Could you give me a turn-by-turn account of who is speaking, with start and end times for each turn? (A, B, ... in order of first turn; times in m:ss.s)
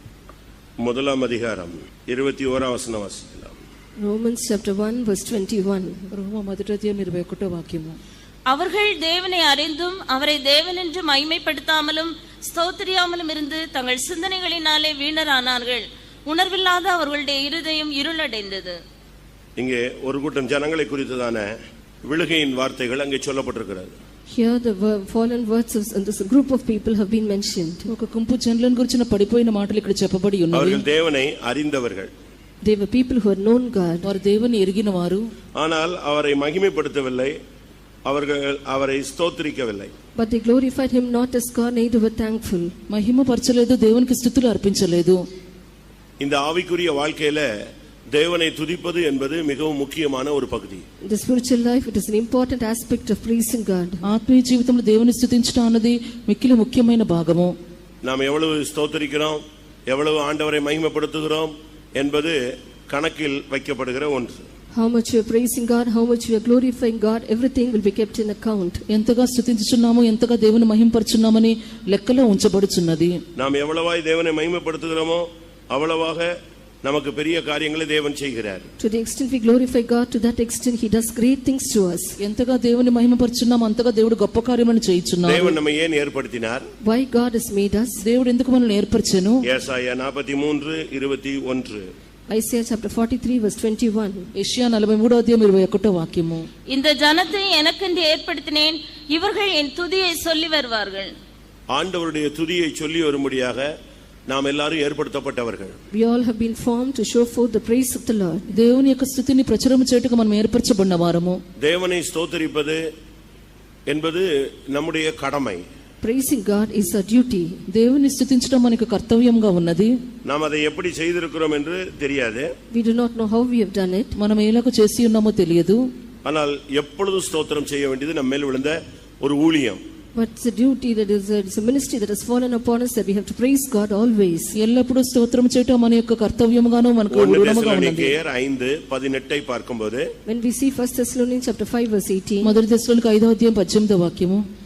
0:00.8-0:03.6 A
0:04.0-0:06.1 B
0:06.1-0:08.0 C
0:08.5-0:18.8 D
0:19.6-0:21.5 A
0:22.0-0:24.0 A
0:24.3-0:27.9 B
0:27.9-0:30.8 C
0:30.5-0:32.1 A
0:32.6-0:34.1 B
0:34.0-0:35.3 C
0:35.6-0:37.4 A
0:38.1-0:39.9 A
0:40.2-0:42.7 B
0:42.9-0:45.3 C
0:46.2-0:47.5 A
0:48.1-0:50.8 A
0:51.0-0:54.0 B
0:54.1-0:57.6 C
0:58.0-1:04.5 A
1:04.7-1:08.8 B
1:08.9-1:13.2 C
1:13.4-1:16.3 A
1:16.8-1:18.7 A
1:18.8-1:22.2 B
1:22.2-1:25.5 C
1:25.2-1:26.6 A
1:26.8-1:28.0 B
1:28.0-1:29.4 C
1:29.5-1:31.9 A
1:32.3-1:34.3 B
1:34.4-1:36.5 C
1:36.7-1:41.1 D
1:41.7-1:43.7 A
1:44.3-1:45.8 A
1:45.9-1:48.5 B
1:48.5-1:51.4 C
1:51.6-1:52.8 A
1:53.9-1:55.6 A
1:56.0-1:57.6 B
1:57.7-1:59.9 C
2:00.3-2:02.5 A
2:02.7-2:04.1 B
2:04.2-2:05.8 C
2:06.2-2:09.8 A
2:10.2-2:14.6 B
2:14.6-2:18.2 C
2:17.1-2:20.1 A
2:20.3-2:22.5 B
2:22.4-2:24.4 C